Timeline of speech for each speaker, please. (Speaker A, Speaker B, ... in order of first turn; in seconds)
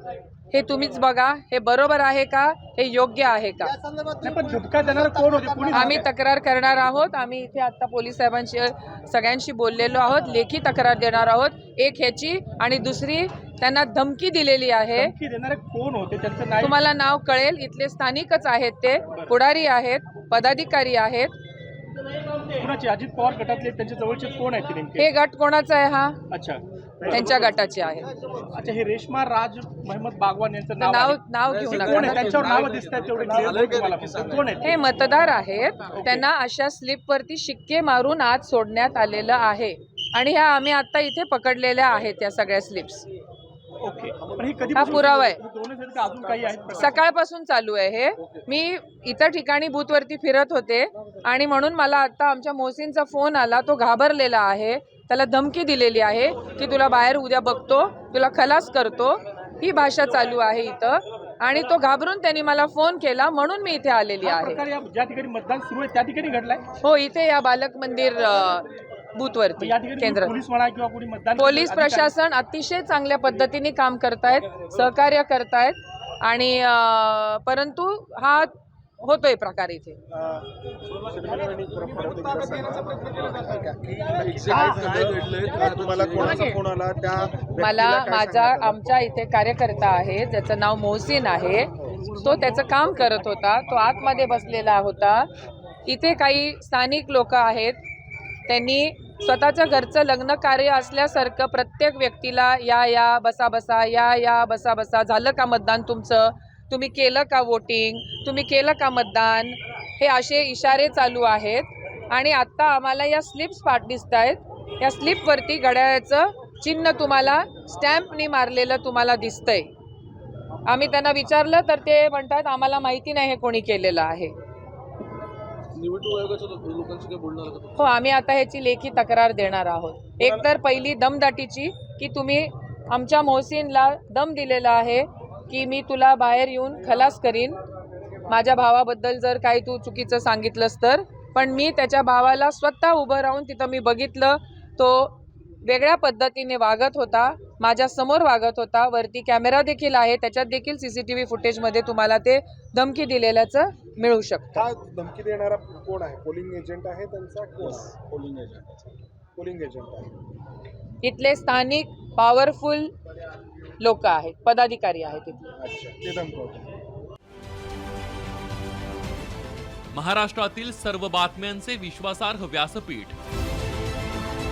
Speaker A: 0.5-3.8, 5.7-15.1, 16.6-21.4, 25.0-26.2, 27.1-28.1, 30.8-32.6, 34.6-43.1, 44.7-45.4, 46.7-64.7, 66.8-70.4, 71.4-80.0, 87.6-95.3, 95.8-97.8, 98.5-119.7, 120.7-124.3, 127.8-137.6, 138.3-154.6, 161.0-162.9, 163.8-165.4
Speaker B: 4.2-6.1, 15.0-16.7, 22.5-25.1, 26.3-27.3, 28.3-34.6, 36.0-36.2, 43.8-47.0, 64.2-66.7, 69.6-72.1, 91.9-93.3
Speaker C: 31.5-34.5, 84.2-86.4, 125.7-127.8
Speaker D: 80.1-89.1, 154.6-160.1, 165.6-166.7
Speaker E: 169.9-173.2